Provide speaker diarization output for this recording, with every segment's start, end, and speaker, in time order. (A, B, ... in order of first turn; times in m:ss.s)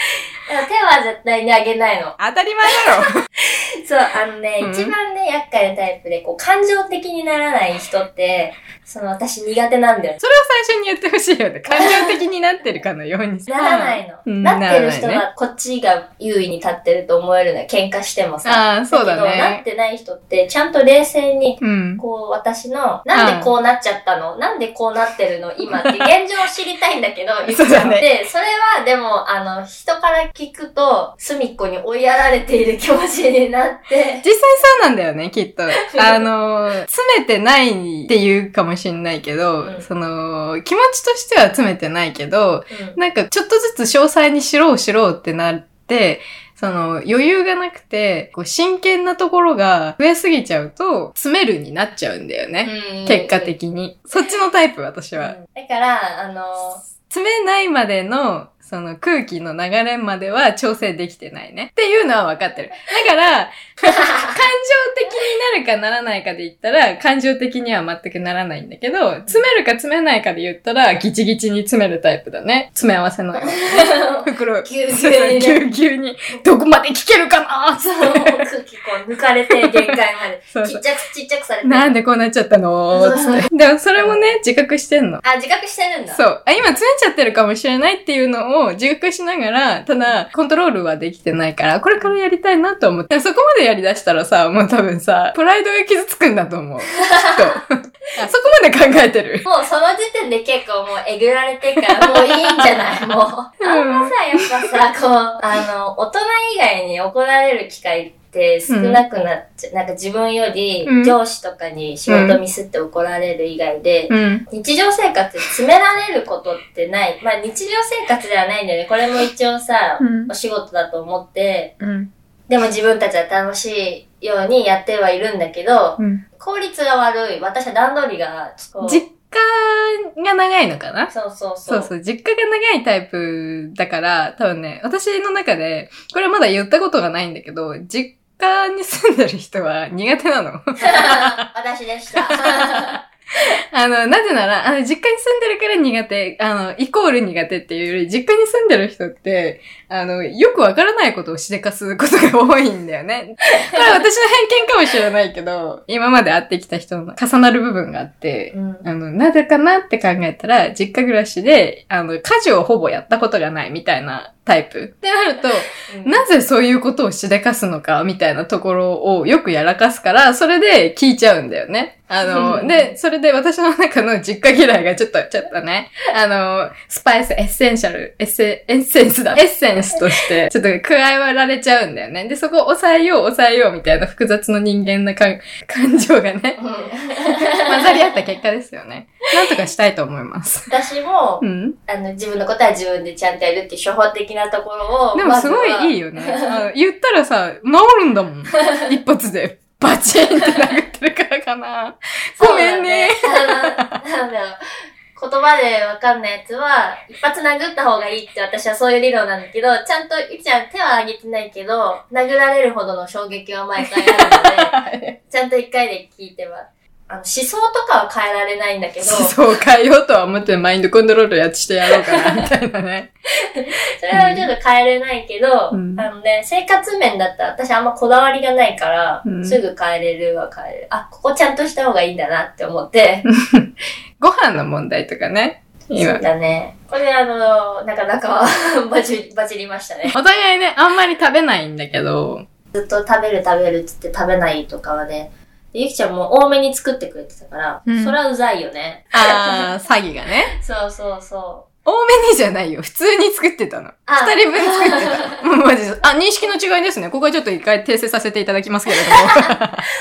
0:00.5-0:02.2 A
0:02.2-0:03.2 B
0:03.4-0:10.2 A
0:04.6-0:04.9 B
0:10.2-0:15.2 B
0:11.7-0:12.2 A
0:13.5-0:34.3 A
0:18.4-0:19.6 B
0:21.6-0:22.0 B
0:23.1-0:23.5 B
0:25.7-0:26.0 B
0:27.5-0:28.1 B
0:34.2-0:55.4 B
0:35.9-0:36.2 A
0:39.6-0:39.9 A
0:42.7-0:43.0 A
0:52.6-0:53.6 A
0:55.2-0:56.8 A
0:57.1-1:18.4 B
1:13.4-1:15.6 A
1:17.8-1:22.0 A
1:19.6-1:20.0 B
1:20.5-1:20.8 B
1:21.6-1:25.2 B
1:22.9-1:23.5 A
1:24.0-1:24.3 A
1:25.2-1:26.2 A
1:26.1-1:39.5 B
1:37.0-1:37.4 A
1:39.4-2:01.7 A
1:42.0-1:42.3 B
1:43.6-1:44.5 B
1:48.7-1:49.0 B
1:50.8-1:51.2 B
1:52.1-1:52.4 B
1:54.1-1:54.4 B
2:00.0-2:00.3 B
2:01.8-2:02.1 B
2:02.5-2:09.1 A
2:08.8-2:11.1 B
2:11.1-2:11.9 A
2:11.7-2:21.4 B
2:20.8-2:23.0 A
2:22.2-2:23.0 B
2:23.7-3:06.6 B
2:38.5-2:38.9 A
2:45.9-2:46.2 A
2:52.2-2:52.9 A
3:06.6-3:08.2 A
3:07.2-3:10.7 B
3:10.7-3:16.6 A
3:11.4-3:11.8 B
3:15.2-3:23.8 B
3:22.4-3:24.6 A
3:25.2-3:34.8 A
3:33.9-3:35.2 B
3:35.3-3:39.4 A
3:39.0-3:43.1 B
3:41.9-3:42.4 A
3:43.5-3:53.3 A
3:44.1-3:44.5 B
3:45.7-3:46.0 B
3:49.2-3:49.6 B
3:53.3-3:53.7 B
3:54.2-3:56.2 B
3:56.0-4:00.2 A
4:00.1-4:02.4 B
4:02.7-4:09.7 A
4:07.9-4:08.2 B
4:09.1-4:10.5 B
4:10.6-4:11.6 A
4:11.9-4:19.8 B
4:14.1-4:15.4 A
4:18.9-4:19.6 A